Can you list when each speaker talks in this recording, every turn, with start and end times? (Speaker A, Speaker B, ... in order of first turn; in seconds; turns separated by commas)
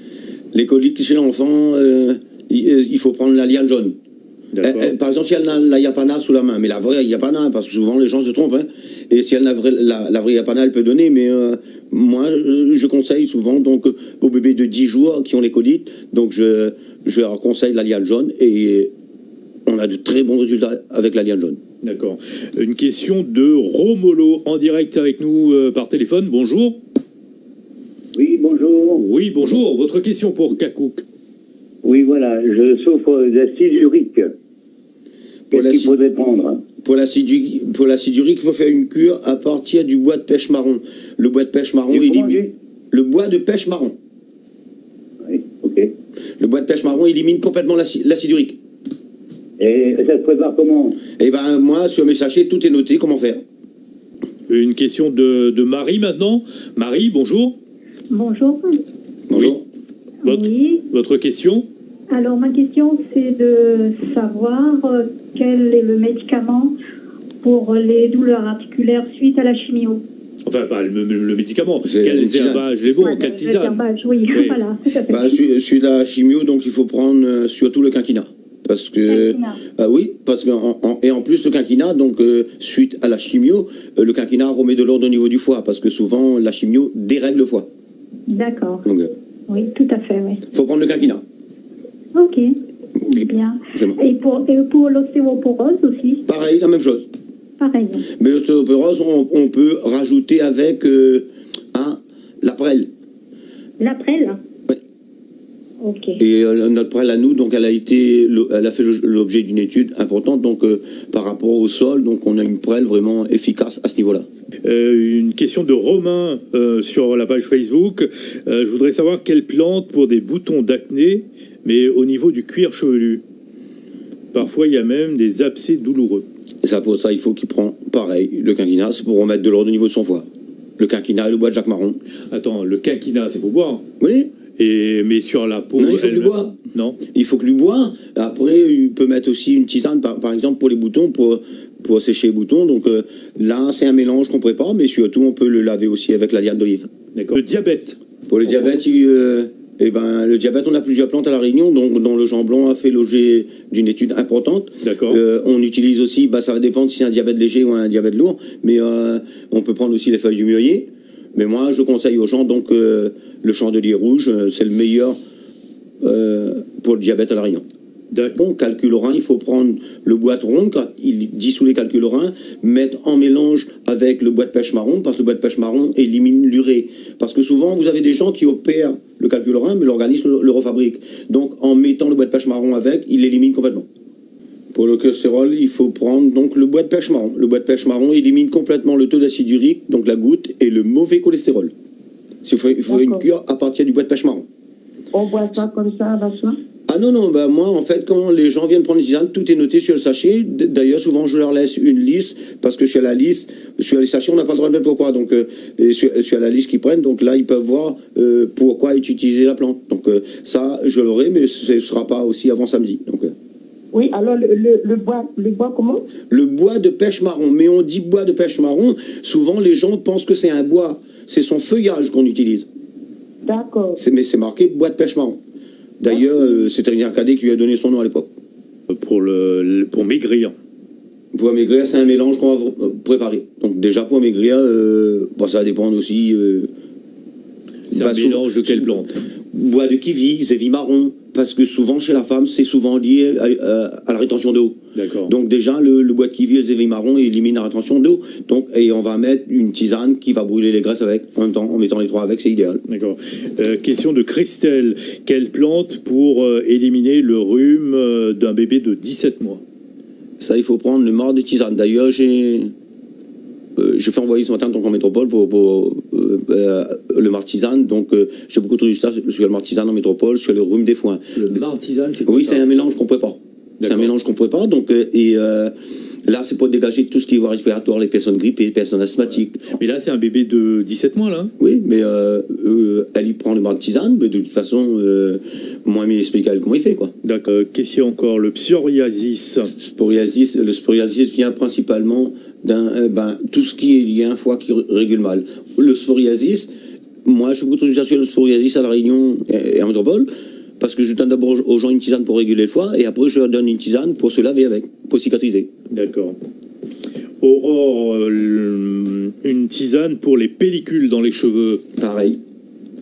Speaker A: 0.5-4.0, Speaker B: 4.5-4.9, Speaker A: 4.6-18.9, Speaker A: 19.7-21.6, Speaker B: 21.8-26.8, Speaker C: 28.1-29.0, Speaker B: 29.0-31.1, Speaker C: 31.8-34.3, Speaker A: 35.5-36.0, Speaker C: 35.5-36.6, Speaker A: 36.8-42.4, Speaker C: 41.9-42.5, Speaker A: 42.9-44.0, Speaker C: 45.3-45.9, Speaker A: 46.4-48.6, Speaker C: 49.6-51.0, Speaker A: 51.2-53.4, Speaker B: 54.5-57.6, Speaker D: 58.1-58.8, Speaker A: 59.3-59.6, Speaker D: 60.2-60.9, Speaker B: 60.2-61.7, Speaker D: 62.1-66.8, Speaker D: 67.4-70.0, Speaker B: 70.5-74.6, Speaker A: 71.8-72.7, Speaker D: 72.9-75.4, Speaker A: 75.1-87.7, Speaker D: 79.0-79.6, Speaker D: 88.3-88.8, Speaker A: 88.8-89.1, Speaker D: 89.5-90.4, Speaker A: 90.5-91.2, Speaker D: 92.1-92.5, Speaker D: 93.0-96.2, Speaker A: 93.7-94.0, Speaker A: 96.3-97.1, Speaker D: 97.6-98.0, Speaker A: 98.2-102.9, Speaker D: 103.8-104.4, Speaker D: 105.8-106.2, Speaker A: 106.2-114.3, Speaker B: 114.6-123.2, Speaker B: 124.3-126.3, Speaker A: 126.6-130.3, Speaker A: 130.8-132.0, Speaker B: 132.3-133.8, Speaker A: 134.0-134.3, Speaker B: 134.6-137.0, Speaker A: 135.8-136.6, Speaker A: 137.1-146.9, Speaker B: 147.2-148.0, Speaker A: 148.3-165.2, Speaker B: 154.8-155.2, Speaker A: 166.0-167.6, Speaker B: 168.1-168.4, Speaker A: 168.3-183.9, Speaker A: 184.7-191.7, Speaker A: 192.4-194.4, Speaker E: 192.9-193.3, Speaker E: 195.1-196.6, Speaker A: 196.9-213.3, Speaker E: 213.9-216.1, Speaker A: 216.3-222.7, Speaker E: 223.4-224.0, Speaker A: 224.0-225.4, Speaker A: 226.0-228.3, Speaker E: 226.1-226.6, Speaker B: 228.9-230.5, Speaker A: 231.3-236.7, Speaker B: 237.9-239.2, Speaker A: 237.9-239.0, Speaker A: 239.5-252.8, Speaker B: 244.9-245.3, Speaker B: 252.9-259.6, Speaker A: 260.4-262.7, Speaker A: 263.8-271.6, Speaker B: 271.4-272.6, Speaker A: 272.3-275.7, Speaker B: 273.8-274.1, Speaker A: 276.2-279.7, Speaker B: 279.7-281.5, Speaker A: 281.6-287.1, Speaker B: 287.2-289.7, Speaker A: 289.7-296.7, Speaker A: 297.2-305.7, Speaker B: 305.9-306.4, Speaker B: 307.4-311.8, Speaker A: 312.0-312.4